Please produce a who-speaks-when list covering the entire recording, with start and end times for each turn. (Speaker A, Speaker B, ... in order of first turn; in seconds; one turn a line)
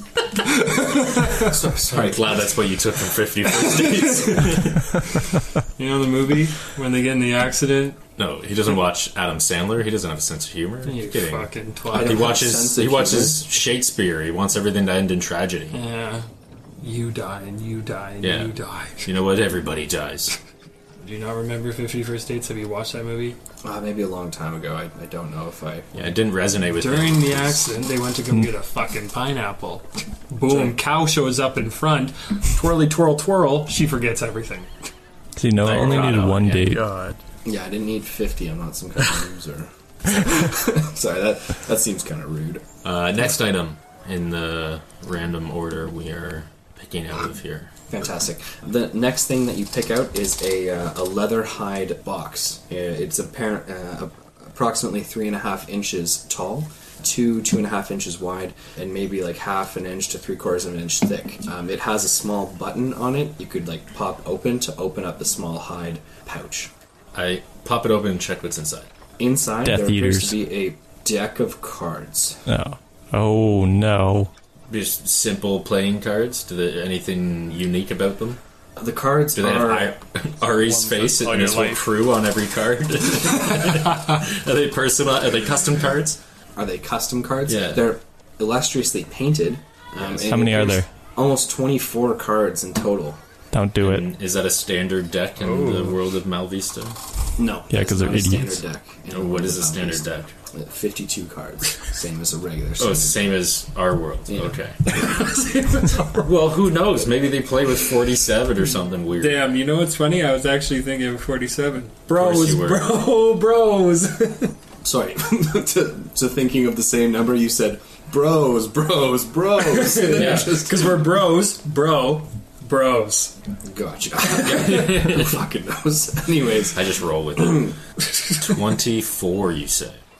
Speaker A: 0.4-1.5
Speaker B: 1.4-2.5
Speaker C: 1.9-4.9
Speaker B: 4.0-4.9
Speaker A: 5.8-8.0
Speaker C: 8.2-15.8
Speaker A: 10.8-12.2
Speaker B: 11.9-13.4
Speaker A: 15.7-16.2
Speaker A: 16.8-19.1
Speaker C: 18.2-20.3
Speaker A: 21.0-23.4
Speaker B: 23.6-26.1
Speaker C: 25.9-27.7
Speaker A: 26.8-34.7
Speaker B: 30.5-30.7
Speaker D: 35.4-36.8
Speaker C: 35.6-36.8
Speaker E: 36.7-37.2
Speaker B: 37.5-42.6
Speaker C: 42.8-47.7
Speaker B: 47.9-66.7
Speaker C: 67.1-68.9
Speaker B: 69.2-72.4
Speaker D: 69.7-70.4
Speaker D: 72.5-74.3
Speaker C: 74.7-78.4
Speaker B: 78.8-79.9
Speaker C: 79.3-86.2
Speaker E: 80.5-81.8
Speaker B: 86.6-93.2
Speaker C: 87.5-87.9
Speaker C: 90.0-90.3
Speaker D: 90.3-90.9
Speaker D: 93.5-94.1
Speaker C: 93.8-97.0
Speaker E: 95.4-96.0
Speaker B: 97.4-103.3
Speaker D: 97.7-98.6
Speaker C: 99.1-100.3
Speaker C: 102.8-104.9
Speaker B: 104.3-105.0
Speaker A: 104.9-106.2
Speaker C: 106.1-109.5
Speaker A: 109.2-114.5
Speaker C: 112.1-112.9
Speaker B: 114.8-121.0
Speaker A: 119.7-123.3
Speaker C: 120.1-120.5
Speaker B: 123.7-127.8
Speaker C: 124.4-125.3
Speaker C: 126.7-127.8
Speaker C: 128.4-130.0